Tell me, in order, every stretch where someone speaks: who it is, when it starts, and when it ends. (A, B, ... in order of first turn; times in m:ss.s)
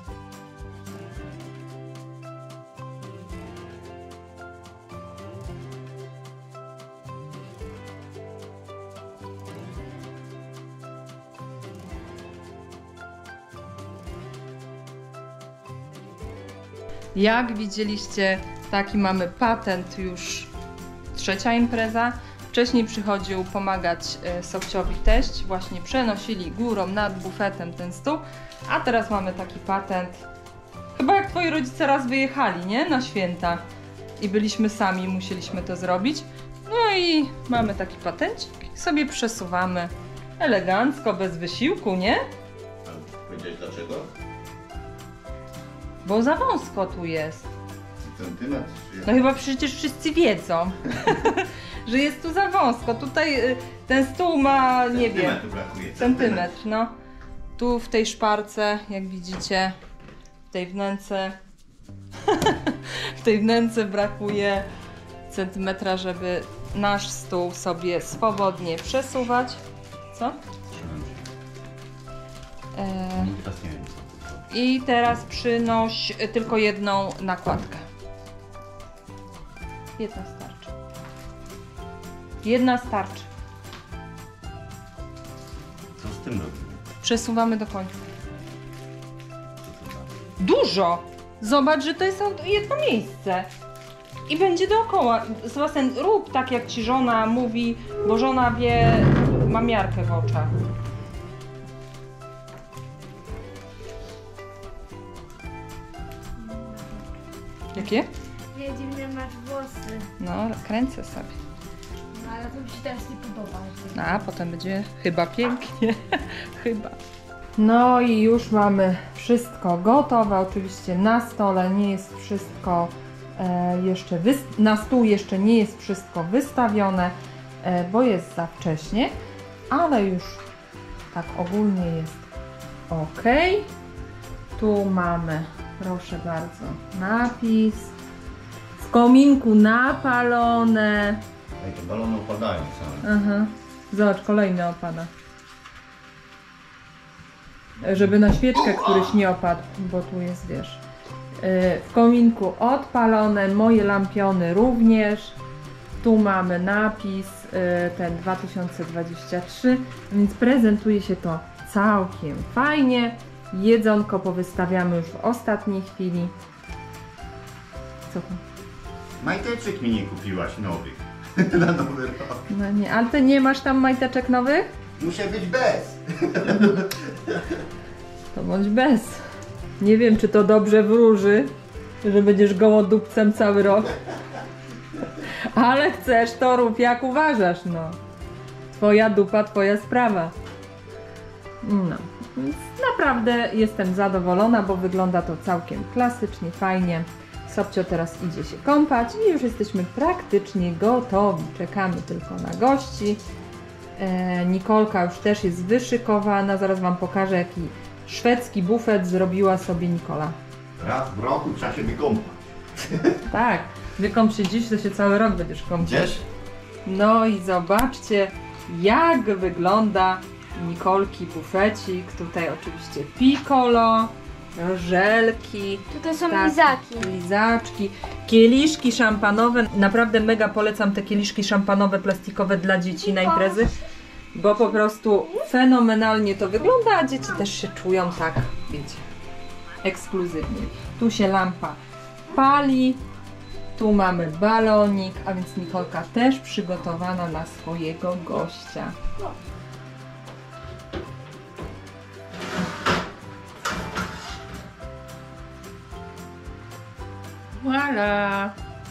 0:17.2-0:20.5 A
0:21.1-0:30.2 A
0:31.0-0:33.6 A
0:34.2-0:42.2 A
0:42.8-0:44.1 B
0:46.0-0:47.5 A
0:48.0-0:49.2 B
0:49.1-0:55.4 A
0:54.9-0:56.5 B
0:56.0-0:56.9 A
0:57.6-0:59.8 A
1:00.5-1:01.4 A
1:02.3-1:04.7 A
1:05.3-1:10.4 A
1:10.7-1:11.3 B
1:12.8-1:13.4 A
1:13.2-1:14.4 B
1:14.5-1:17.9 A
1:20.0-1:20.8 A
1:22.4-1:23.3 A
1:26.0-1:26.8 B
1:27.0-1:28.0 A
1:29.6-1:30.1 B
1:30.4-1:33.5 A
1:34.3-1:40.5 A
1:46.4-1:47.1 C
1:47.7-1:48.1 A
1:48.5-1:50.1 C
1:50.2-1:51.4 A
1:52.1-1:54.2 C
1:54.0-1:57.0 A
1:57.6-2:09.2 A
2:09.7-2:10.4 A
2:11.1-2:12.3 A
2:12.9-2:13.7 A
2:14.6-2:18.0 A
2:18.8-2:21.2 A
2:21.6-2:23.1 B
2:23.0-2:25.1 A
2:27.8-2:30.8 A
2:28.6-2:29.2 B
2:31.4-2:35.4 A
2:36.0-2:46.4 A
2:48.1-2:48.4 A
2:49.2-2:52.5 B
2:52.5-2:54.7 A
2:55.0-2:57.6 B
2:58.3-2:59.2 A
2:59.8-3:04.0 A
3:05.3-3:08.0 A
3:08.7-3:10.4 A
3:11.6-3:23.2 A
3:24.0-3:30.4 A
3:30.8-3:33.2 B
3:33.3-3:36.2 A
3:35.8-3:36.2 B
3:36.8-3:53.7 A
3:45.9-3:47.1 C
3:53.1-3:53.7 C
3:54.3-3:59.0 A
3:59.8-4:01.8 A
4:02.3-4:03.0 A
4:03.8-4:09.0 A
4:17.6-4:18.6 A